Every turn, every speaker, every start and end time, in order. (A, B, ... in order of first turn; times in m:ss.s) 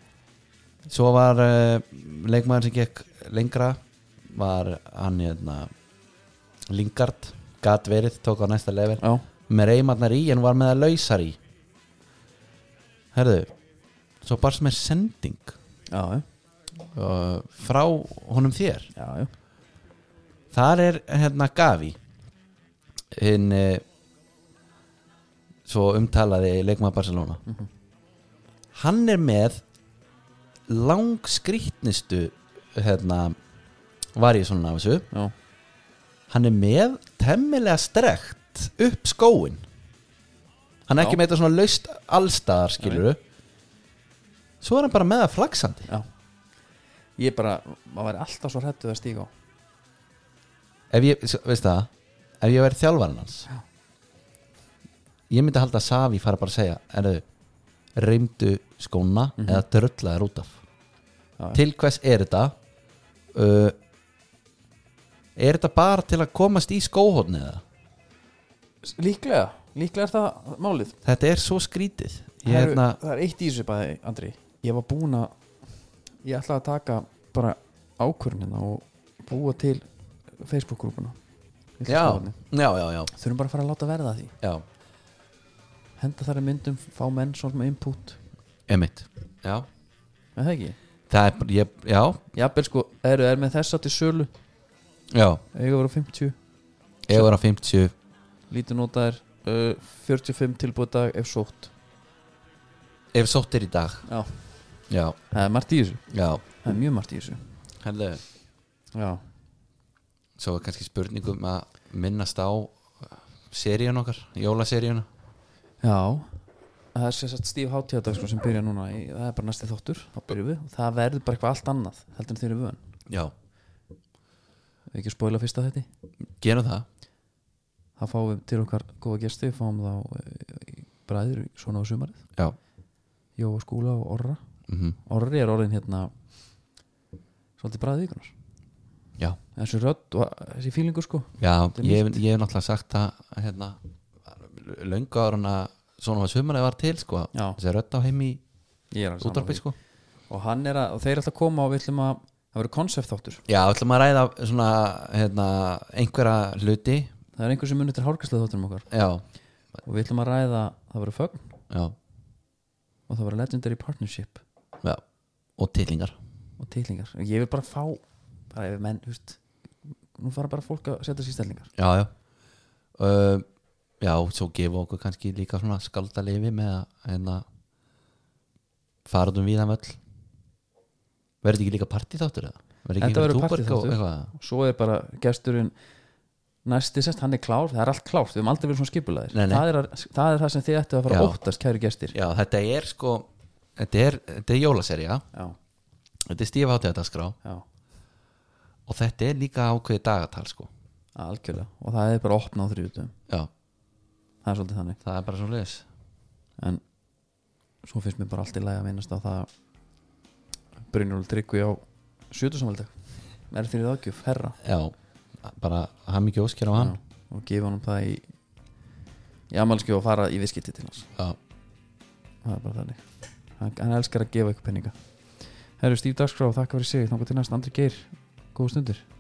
0:00.9-0:05.7 A
0:06.7-0:11.4 A
0:09.0-0:09.2 B
0:13.1-0:13.5 A
0:14.2-0:15.6 A
0:15.9-0:16.2 B
0:16.8-0:18.9 A
0:19.0-0:19.3 B
0:20.5-0:22.0 A
0:23.1-0:23.8 A
0:25.6-0:27.4 A
0:28.7-0:29.6 A
0:30.7-0:33.4 A
0:34.1-0:35.1 A
0:36.3-0:39.6 A
0:40.9-0:43.2 A
0:44.6-0:45.9 A
0:47.2-0:49.3 B
0:50.9-0:53.5 A
0:55.3-0:57.2 A
0:58.0-1:00.6 A
0:59.4-0:59.6 B
1:01.5-1:02.5 A
1:03.3-1:03.7 A
1:05.4-1:07.6 A
1:08.8-1:11.0 B
1:11.0-1:13.0 A
1:12.4-1:15.3 B
1:16.2-1:21.2 B
1:21.8-1:22.4 B
1:21.8-1:23.1 A
1:23.1-1:24.4 B
1:26.0-1:28.2 B
1:28.7-1:29.7 A
1:30.4-1:30.8 B
1:31.1-1:32.2 A
1:32.3-1:34.3 B
1:35.1-1:35.4 A
1:35.5-1:36.4 B
1:37.0-1:37.9 A
1:38.5-1:41.7 B
1:43.1-1:44.0 A
1:44.0-1:44.4 B
1:44.9-1:45.2 A
1:45.3-1:46.0 B
1:46.1-1:46.4 A
1:46.6-1:47.4 B
1:47.8-1:48.2 A
1:48.9-1:49.2 B
1:50.4-1:55.1 A
1:55.8-1:56.4 B
1:56.9-2:02.8 B
2:03.1-2:03.3 A
2:04.9-2:05.9 B
2:06.3-2:06.8 A
2:08.0-2:12.2 B
2:13.4-2:14.4 B
2:14.7-2:15.0 A
2:15.0-2:16.1 B
2:17.6-2:18.3 B
2:19.6-2:22.2 B
2:21.4-2:28.4 A
2:28.9-2:29.6 B
2:29.2-2:29.8 A
2:30.3-2:33.4 B
2:33.5-2:37.1 A
2:37.4-2:38.9 B
2:38.9-2:39.2 A
2:39.8-2:41.5 B
2:41.7-2:41.9 A
2:43.1-2:44.4 B
2:45.6-2:46.1 A
2:46.6-2:49.4 B
2:50.2-2:51.7 B
2:51.8-2:52.1 A
2:53.0-2:53.4 A
2:54.0-2:57.4 A
2:59.0-3:00.0 A
3:01.4-3:04.3 A
3:03.0-3:05.7 B
3:06.6-3:12.2 B
3:09.3-3:09.6 A
3:11.1-3:11.4 A
3:12.1-3:15.2 A
3:16.2-3:17.4 A
3:18.9-3:20.7 A
3:21.2-3:23.1 B
3:24.4-3:25.0 B
3:25.0-3:25.8 A
3:27.8-3:29.5 B
3:30.9-3:32.9 B
3:33.5-3:34.6 B
3:34.6-3:37.0 A
3:36.7-3:38.3 B
3:39.5-3:41.1 B
3:42.4-3:43.0 B
3:43.6-3:44.9 B
3:45.8-3:49.0 B